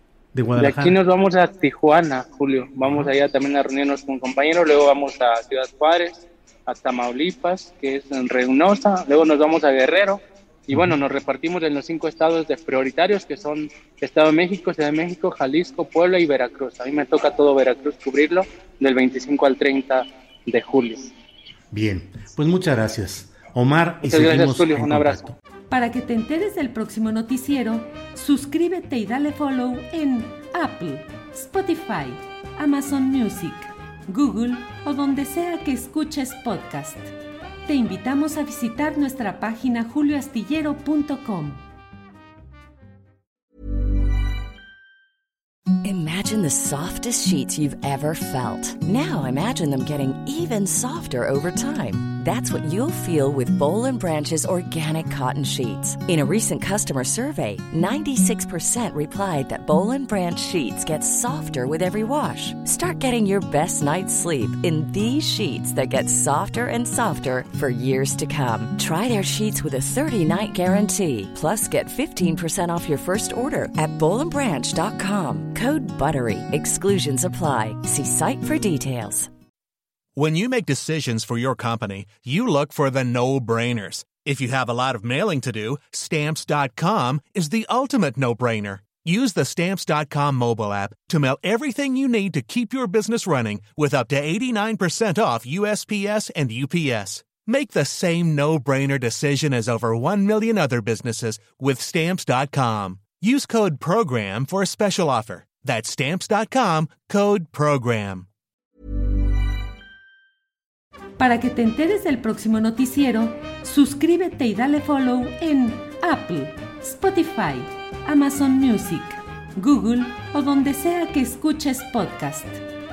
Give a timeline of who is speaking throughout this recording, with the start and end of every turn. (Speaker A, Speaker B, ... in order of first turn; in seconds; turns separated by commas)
Speaker A: 0.3-1.0, Speaker B: 0.6-21.1, Speaker A: 2.8-3.1, Speaker A: 21.7-25.4, Speaker B: 24.0-25.2, Speaker C: 25.7-37.1, Speaker C: 37.6-41.6, Speaker D: 45.8-79.3, Speaker E: 80.2-108.2, Speaker A: 84.0-84.3, Speaker A: 88.8-89.0, Speaker A: 97.2-97.5, Speaker A: 103.0-103.2, Speaker C: 111.2-122.6